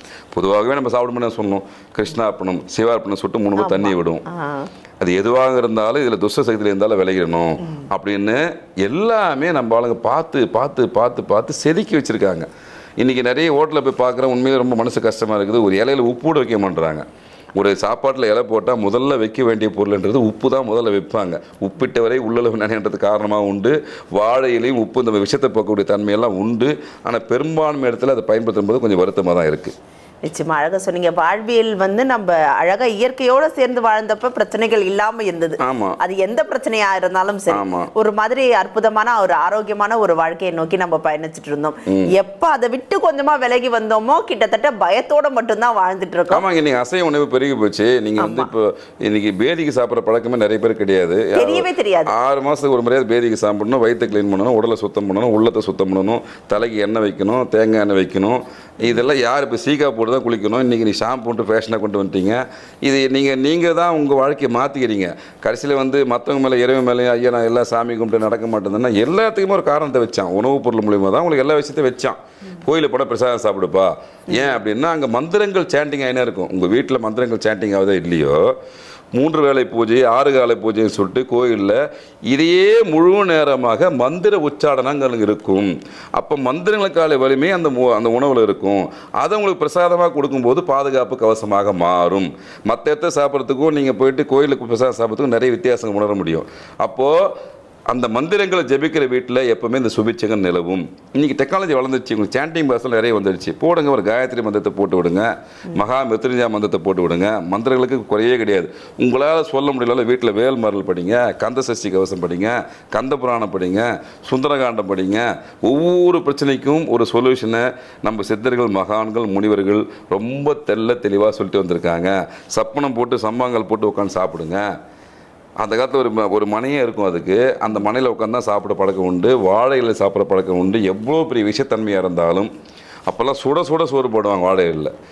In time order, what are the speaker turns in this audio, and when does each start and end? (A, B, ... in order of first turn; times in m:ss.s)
0:00.3-0:04.2 A
0:03.6-0:04.7 B
0:05.0-0:12.5 A
0:13.0-0:29.8 A
0:30.2-0:46.4 B
0:35.6-0:36.0 A
0:37.5-0:37.9 A
0:46.3-1:18.4 A
0:48.2-0:48.5 B
0:51.4-0:52.1 B
1:19.2-1:37.3 A
1:37.9-2:04.6 A
2:05.6-2:12.5 A
2:13.1-2:14.9 A